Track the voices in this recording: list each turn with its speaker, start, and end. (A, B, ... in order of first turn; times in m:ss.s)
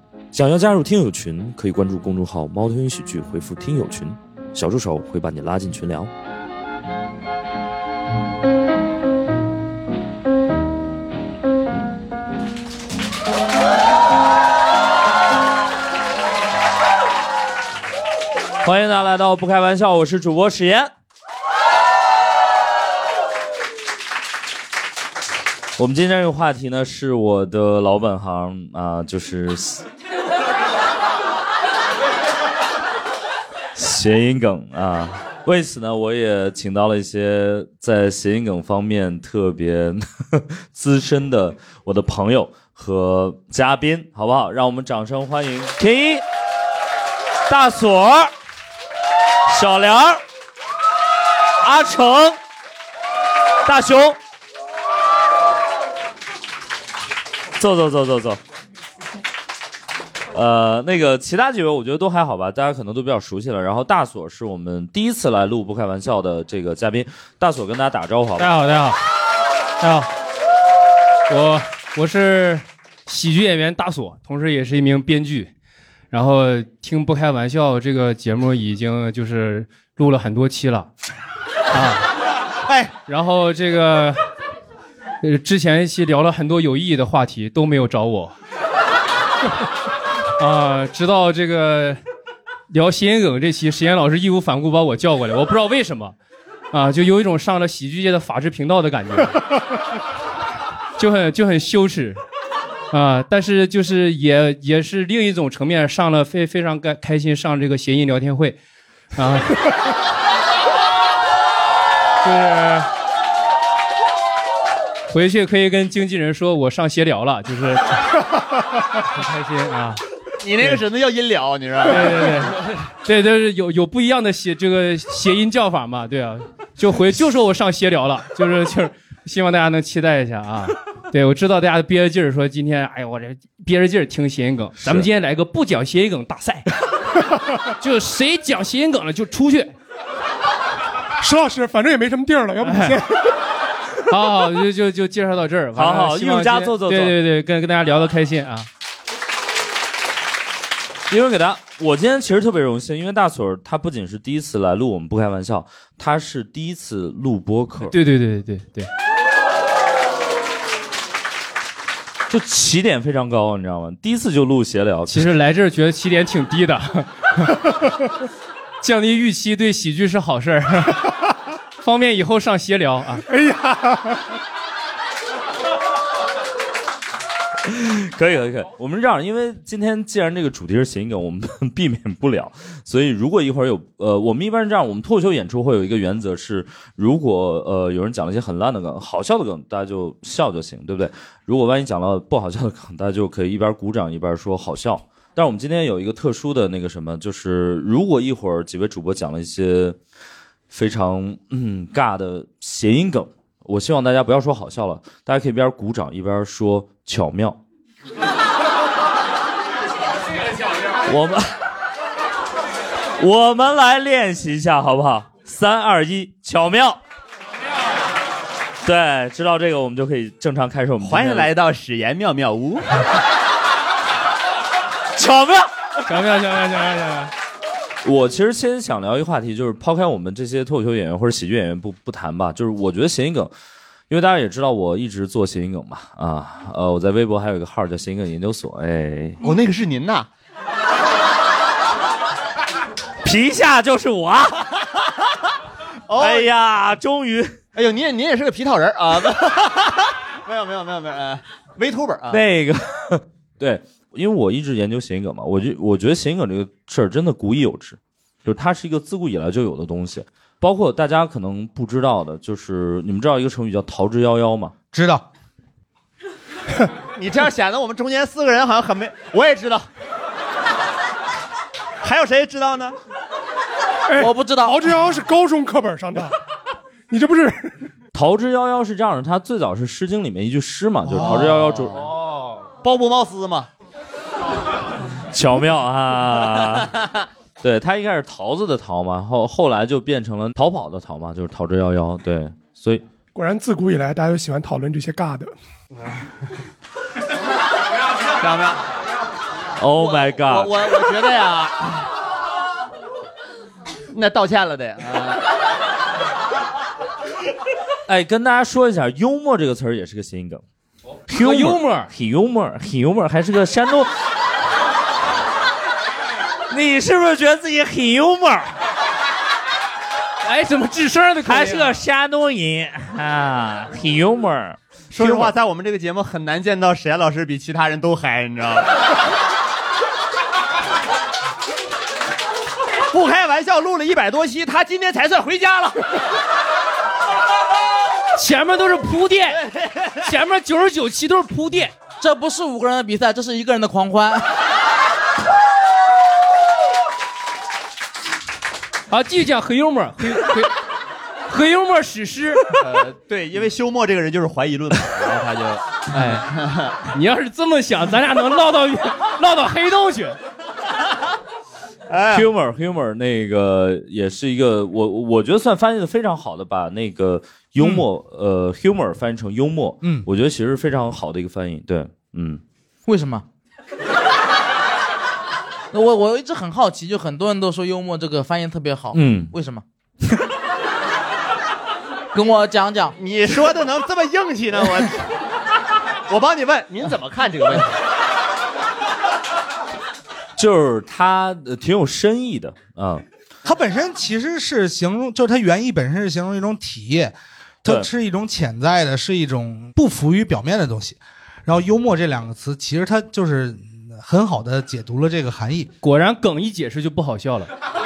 0:00.3-0:06.1 A
0:18.6-0:20.9 A
0:25.8-0:29.8 A
0:33.7-0:46.2 A
0:47.5-0:48.3 A
0:49.5-0:50.2 A
0:51.6-0:52.4 A
0:53.6-0:54.2 A
0:57.6-0:58.4 A
1:00.3-1:08.5 A
1:08.4-1:09.0 B
1:09.8-1:10.1 B
1:11.3-1:15.5 B
1:16.1-1:20.9 B
1:21.7-1:22.0 B
1:22.6-1:22.9 C
1:23.1-1:24.2 B
1:25.2-1:28.3 B
1:30.4-1:32.0 B
1:32.7-1:36.1 B
1:36.7-1:39.5 B
1:41.0-1:42.2 B
1:42.9-1:48.6 B
1:49.2-1:49.6 B
1:52.2-1:52.9 B
1:55.1-1:58.1 B
1:59.1-2:00.0 B
2:00.4-2:02.5 D
2:01.8-2:16.7 B
2:14.8-2:15.1 A
2:17.8-2:19.7 B
2:21.2-2:23.3 E
2:22.6-2:23.0 B
2:24.1-2:28.7 B
2:25.8-2:27.2 A
2:31.1-2:37.9 A
2:37.9-2:38.9 B
2:42.3-2:45.3 A
2:45.1-2:47.5 B
2:48.8-2:51.1 B
2:51.8-2:53.2 B
2:53.3-2:54.2 E
2:57.6-3:20.0 A
3:20.7-3:27.6 A
3:31.0-3:31.5 A
3:33.2-3:37.0 A
3:38.8-3:41.5 A
3:41.0-3:42.9 D
3:45.1-3:45.7 A
3:46.0-3:47.3 B
3:48.0-3:53.5 A
3:54.1-3:59.4 A
3:59.4-4:00.3 D
4:03.2-4:05.0 A
4:06.1-4:06.5 D
4:06.2-4:07.6 A
4:07.8-4:12.4 D
4:12.3-4:24.7 A
4:24.9-4:25.2 C
4:27.2-4:29.9 D
4:32.0-4:33.0 D
4:34.1-4:36.3 E
4:34.2-4:34.8 F
4:37.1-4:37.8 E
4:38.1-4:42.0 A
4:41.2-4:42.1 D
4:42.8-4:43.7 D
4:45.3-4:47.0 A
4:47.6-4:53.0 A
4:53.3-4:55.5 E
4:58.4-4:58.8 D
4:59.8-5:01.1 A
5:00.0-5:02.0 D
5:04.1-5:05.4 D
5:08.1-5:10.6 A
5:11.3-5:14.1 A
5:11.4-5:12.1 B
5:16.7-5:18.8 A
5:20.4-5:22.0 B
5:21.4-5:25.5 A
5:25.1-5:29.0 D
5:33.1-5:36.2 D
5:38.4-5:41.9 B
5:39.6-5:40.2 D
5:42.2-5:44.5 F
5:49.1-5:50.7 B
5:51.5-5:52.6 B
5:52.7-5:55.8 D
5:56.1-5:56.5 B
5:56.4-5:57.0 D
5:57.0-6:00.4 B
6:02.1-6:02.5 D
6:02.3-6:12.6 A
6:07.8-6:08.0 C
6:13.0-6:13.4 F
6:15.9-6:19.8 F
6:19.1-6:19.5 A
6:22.3-6:23.1 F
6:23.2-6:25.3 D
6:26.3-6:28.0 D
6:30.6-6:33.2 A
6:33.6-6:45.9 C
6:46.0-6:47.7 B